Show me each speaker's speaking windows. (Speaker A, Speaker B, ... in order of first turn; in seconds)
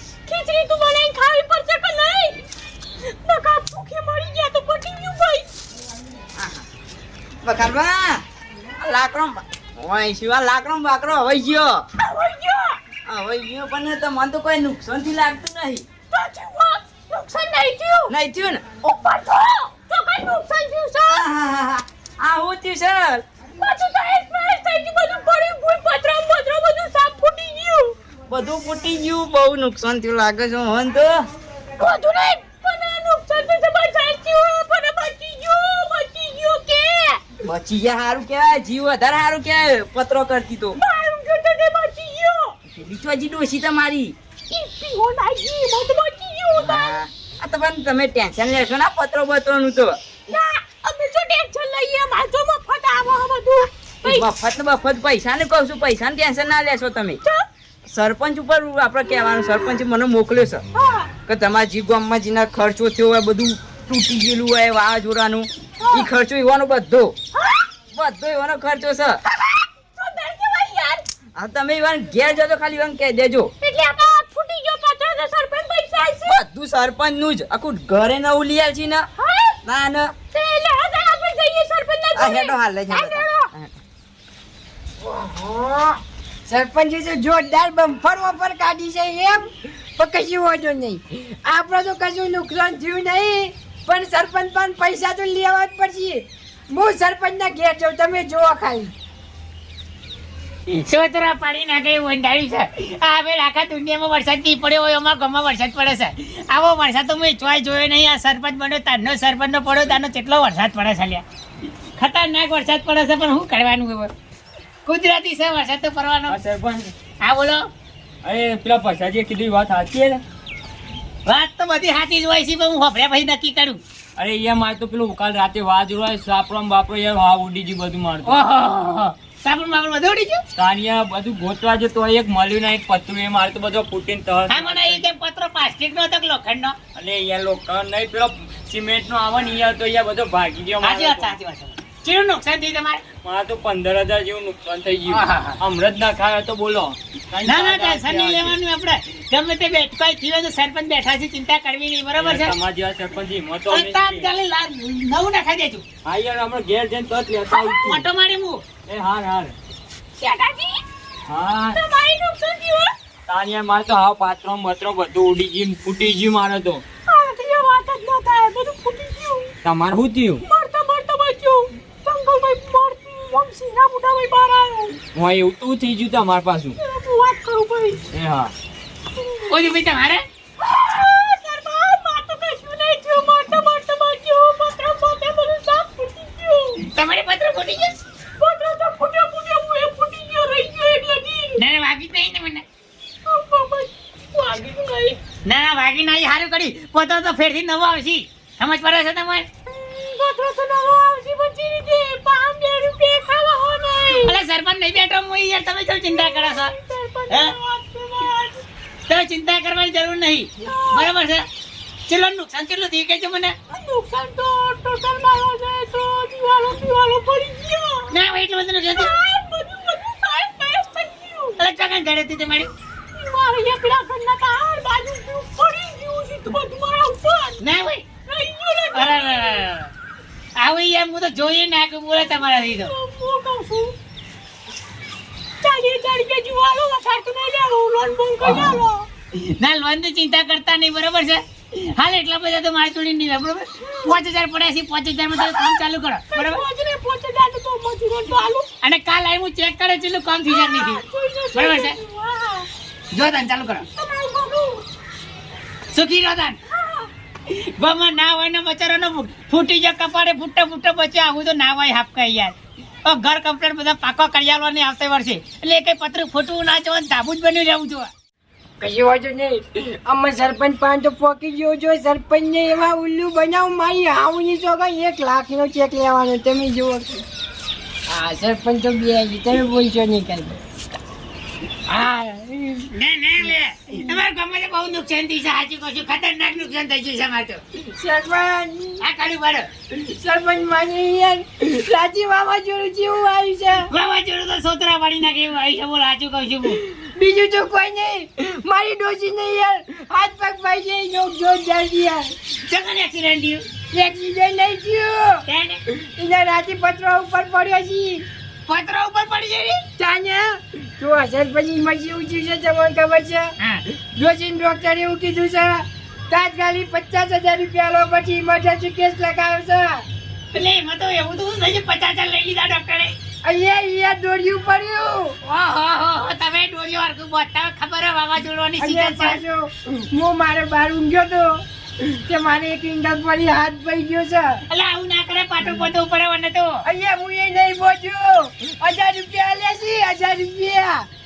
Speaker A: 0.3-2.4, 3.0-5.5, 12.0-12.8, 16.1-18.1, 18.9-21.3, 23.6-27.9, 31.8-37.2, 40.8-42.5, 44.5-47.0, 50.3-54.3, 60.8-61.1, 69.9-71.0, 73.6-76.4, 79.2-79.6, 80.3-83.5, 161.8-162.9, 167.1-169.5, 170.4-175.0, 176.8-178.0, 179.2-179.5, 180.6-186.8, 188.4-191.6, 193.3-195.2, 199.7-204.3, 206.1-208.6, 210.6-211.2, 213.7-218.1, 218.9-221.6, 223.1-227.6, 228.2-229.7, 232.4-233.9, 235.6-239.1, 243.8-244.2, 245.4-245.8, 246.3-248.7, 250.5-252.7, 253.9-254.8, 256.7-257.1
Speaker B: 6.4-6.7, 7.4-8.2, 8.8-11.9, 13.1-15.9, 18.1-18.7, 21.0-23.2, 28.3-31.3, 37.5-40.8, 42.7-44.1, 46.6-50.0, 54.0-57.2, 57.9-60.6, 61.3-67.2, 67.9-69.2, 71.4-73.5, 76.2-79.1, 79.6-80.1, 82.1-83.7
Speaker C: 85.0-98.9, 268.8-277.2, 278.1-280.6, 281.9-282.9, 287.9-289.0, 289.9-293.9, 296.7-302.3, 303.9-305.4, 306.2-308.2, 310.0-313.5, 314.1-320.0, 323.4-325.3, 328.8-334.6, 336.9-341.1
Speaker D: 100.7-111.2, 112.0-114.1, 114.8-116.4, 117.2-117.7, 121.2-123.8, 128.2-130.4, 134.5-136.8, 140.8-143.0, 145.1-145.6, 147.4-152.6, 153.7-155.8, 157.6-158.6, 160.2-160.7, 179.5-180.2, 186.8-188.0, 191.6-192.7, 195.4-199.5, 204.2-206.7, 207.3-207.6, 209.1-211.4, 212.1-213.6, 218.1-219.1, 221.6-222.7, 227.6-228.1, 228.9-229.9, 230.6-232.9, 238.5-238.7, 239.3-246.6, 248.8-251.0, 251.6-252.0, 253.1-253.9, 255.9-256.6, 257.5-268.1, 282.9-287.6, 289.0-289.7, 293.9-296.8, 302.6-303.6, 305.5-305.8, 308.7-309.8, 320.5-323.1, 325.4-329.4, 334.7-336.8
Speaker E: 116.3-116.9, 118.2-120.2, 124.2-128.4, 130.5-135.1, 136.9-141.3, 143.2-148.6, 152.2-154.3, 156.1-158.1, 158.9-159.5, 161.3-161.8, 163.3-166.8, 169.7-170.4, 175.2-176.8, 178.1-178.5